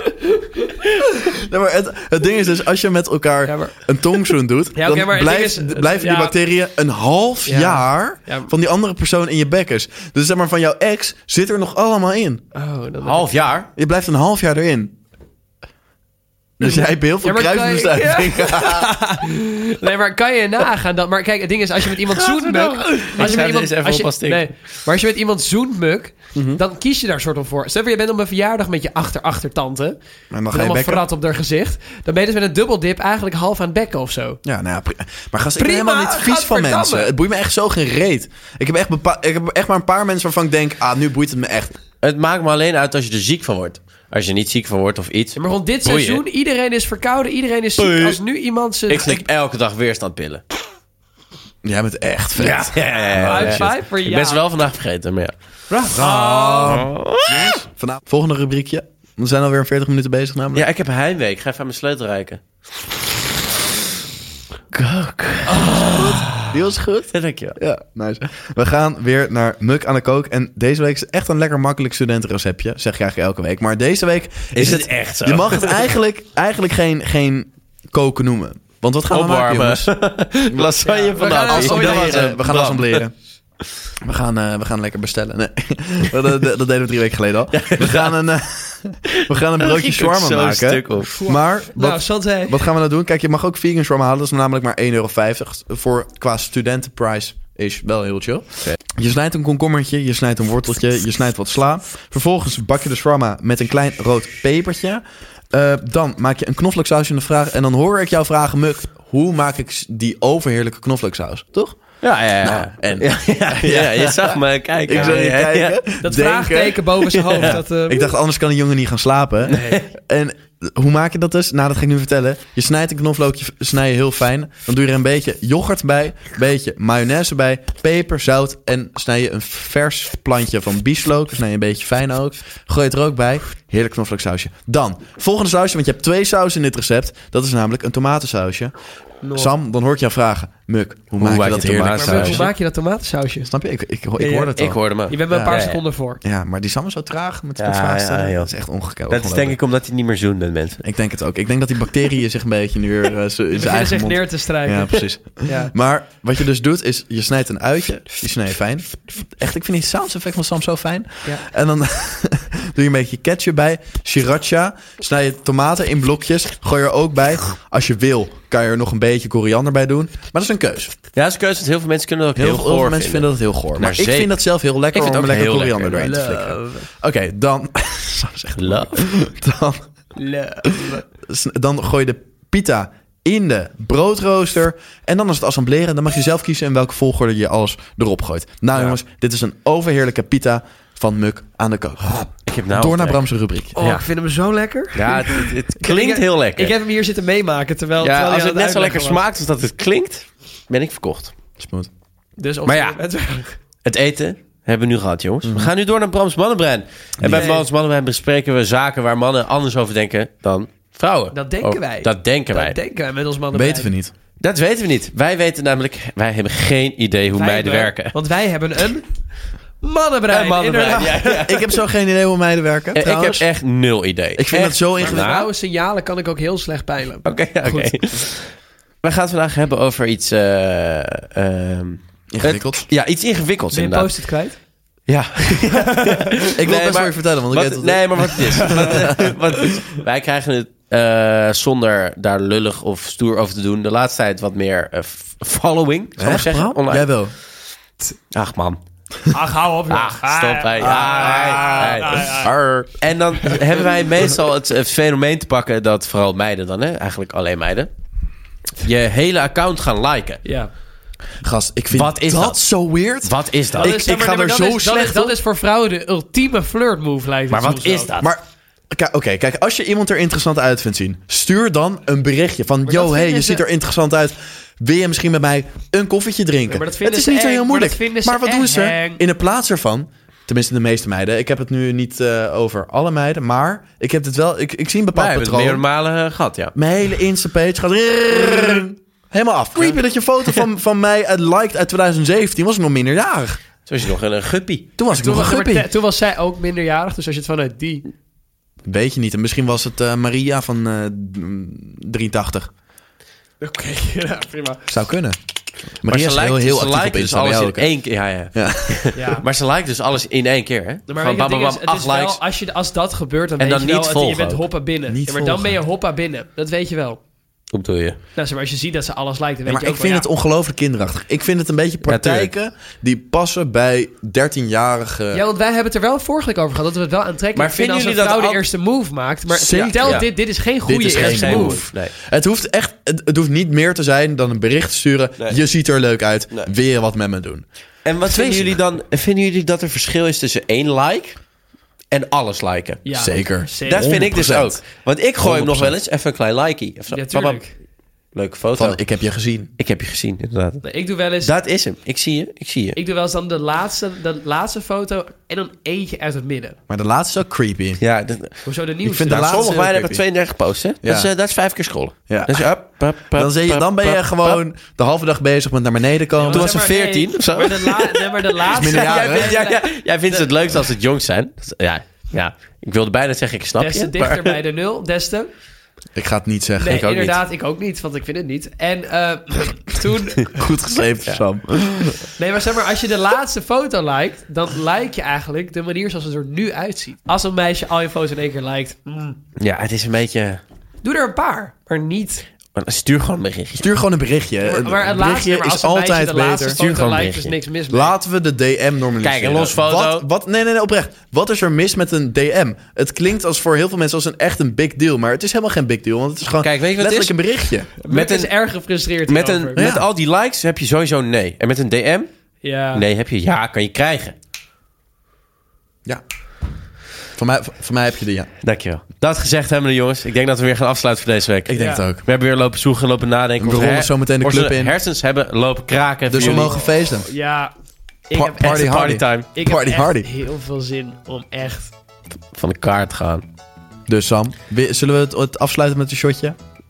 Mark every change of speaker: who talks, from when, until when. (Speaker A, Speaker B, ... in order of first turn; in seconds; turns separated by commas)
Speaker A: 1.1-12.4, Speaker B: 3.5-3.8, Speaker B: 4.8-6.3, Speaker B: 7.5-8.5, Speaker B: 12.5-13.3, Speaker C: 13.0-13.7, Speaker A: 13.8-15.0, Speaker A: 16.6-18.9, Speaker B: 16.6-30.0, Speaker C: 22.0-24.4, Speaker A: 26.3-26.6, Speaker A: 30.3-31.1, Speaker B: 30.5-34.4, Speaker A: 34.5-41.8, Speaker B: 35.6-37.1, Speaker C: 42.0-46.2, Speaker B: 45.4-49.1, Speaker C: 47.8-48.2, Speaker C: 48.9-50.4, Speaker A: 51.6-53.7, Speaker C: 52.4-55.3, Speaker B: 52.9-54.4, Speaker B: 55.7-56.9, Speaker A: 55.9-60.7, Speaker C: 56.6-57.6, Speaker C: 60.5-62.4, Speaker C: 64.7-66.5, Speaker A: 65.6-79.9, Speaker C: 67.1-67.6, Speaker C: 74.6-75.9, Speaker C: 79.1-83.0, Speaker A: 80.5-83.1, Speaker B: 80.8-82.4, Speaker A: 84.0-138.7, Speaker C: 87.5-88.2, Speaker C: 89.1-91.1, Speaker B: 91.1-92.6, Speaker C: 112.0-115.8, Speaker B: 114.9-115.2, Speaker B: 116.0-118.1, Speaker C: 117.1-117.6, Speaker C: 119.5-119.9, Speaker B: 139.2-139.5, Speaker A: 139.3-142.5, Speaker C: 141.2-142.5, Speaker B: 141.9-143.5, Speaker A: 143.5-145.6, Speaker C: 144.2-145.8, Speaker B: 145.1-146.2, Speaker A: 146.2-149.6, Speaker C: 147.6-148.5, Speaker C: 149.1-150.8, Speaker A: 150.8-170.9, Speaker B: 153.6-155.7, Speaker C: 171.1-174.4, Speaker A: 172.4-179.9, Speaker C: 174.9-176.2, Speaker B: 175.9-176.9, Speaker C: 178.6-179.0, Speaker B: 180.2-181.0, Speaker A: 180.6-193.8, Speaker C: 192.5-193.2, Speaker B: 193.8-199.2, Speaker C: 193.8-194.0, Speaker C: 194.9-196.8, Speaker C: 198.0-201.3, Speaker A: 201.6-201.9, Speaker B: 202.4-203.6, Speaker C: 202.7-203.0, Speaker C: 203.8-212.8, Speaker A: 205.4-205.7, Speaker A: 207.2-207.6, Speaker B: 207.3-207.6, Speaker B: 211.3-213.9, Speaker A: 213.5-214.1, Speaker C: 214.4-218.1, Speaker B: 217.3-219.1, Speaker B: 219.8-221.5, Speaker C: 220.3-221.7, Speaker A: 221.5-223.4, Speaker C: 222.9-225.5, Speaker A: 224.4-225.3, Speaker B: 225.0-228.0, Speaker C: 227.2-234.1, Speaker A: 232.3-232.9, Speaker B: 233.7-234.6, Speaker C: 235.1-247.1, Speaker A: 236.5-239.4, Speaker A: 246.2-247.3, Speaker C: 248.3-248.8, Speaker B: 249.3-252.5, Speaker C: 249.9-252.4, Speaker A: 250.8-253.5, Speaker C: 253.0-257.9, Speaker C: 258.8-260.4, Speaker B: 260.4-260.7, Speaker A: 261.4-265.4, Speaker C: 261.9-262.6, Speaker C: 263.2-264.0, Speaker B: 263.8-268.1, Speaker C: 267.5-268.3, Speaker A: 268.2-285.8, Speaker B: 272.9-273.6, Speaker B: 276.7-279.2, Speaker C: 285.1-286.7, Speaker A: 286.8-293.6, Speaker C: 293.9-294.9, Speaker A: 295.0-295.9, Speaker B: 295.1-298.1, Speaker A: 298.9-302.7, Speaker B: 303.6-304.9, Speaker A: 304.9-305.4, Speaker A: 305.9-307.9, Speaker C: 306.1-312.4, Speaker A: 308.5-309.1, Speaker B: 309.1-309.5, Speaker B: 311.1-317.2, Speaker C: 313.6-314.6, Speaker A: 315.1-315.8, Speaker C: 317.7-318.2, Speaker B: 318.4-320.3, Speaker A: 319.7-325.4, Speaker C: 322.1-322.5, Speaker B: 325.3-331.8, Speaker C: 327.6-328.6, Speaker A: 329.5-330.3, Speaker C: 330.0-330.3, Speaker A: 330.9-337.7, Speaker C: 331.1-332.1, Speaker C: 338.1-341.4, Speaker C: 342.1-343.0, Speaker B: 343.1-344.3, Speaker A: 343.2-344.8, Speaker C: 343.9-347.6, Speaker A: 345.4-345.9, Speaker B: 347.1-347.7, Speaker C: 348.3-349.0, Speaker A: 348.8-349.7, Speaker C: 349.8-350.8, Speaker B: 350.8-351.5, Speaker C: 351.4-353.0, Speaker B: 353.0-356.8, Speaker A: 356.9-358.0, Speaker C: 358.0-358.6, Speaker B: 358.7-359.7, Speaker A: 359.0-360.2, Speaker C: 359.3-364.6, Speaker A: 361.0-361.3, Speaker A: 362.3-362.7, Speaker A: 363.3-366.9, Speaker B: 366.4-370.5, Speaker C: 366.5-374.6, Speaker A: 368.7-369.6, Speaker B: 373.8-375.5, Speaker A: 376.1-377.0, Speaker B: 376.8-380.6, Speaker C: 376.9-377.4, Speaker A: 380.5-382.2, Speaker B: 382.3-389.4, Speaker C: 389.6-390.6, Speaker B: 391.0-392.4, Speaker C: 392.7-393.9, Speaker A: 393.8-396.8, Speaker B: 394.6-398.1, Speaker C: 396.8-397.6, Speaker A: 397.9-407.9, Speaker C: 399.2-400.3, Speaker C: 406.6-407.4, Speaker B: 408.0-409.8, Speaker C: 408.1-408.5, Speaker C: 409.3-412.3, Speaker A: 409.8-410.1, Speaker B: 412.6-413.1, Speaker C: 412.9-414.4, Speaker A: 417.4-418.5, Speaker C: 418.6-426.7, Speaker A: 421.7-422.2, Speaker B: 421.8-422.0, Speaker A: 423.6-424.9, Speaker A: 426.3-427.3, Speaker B: 426.4-426.7, Speaker B: 427.2-427.7, Speaker B: 428.3-431.9, Speaker A: 428.3-430.3, Speaker C: 428.6-429.5, Speaker C: 432.5-433.5, Speaker A: 434.1-436.6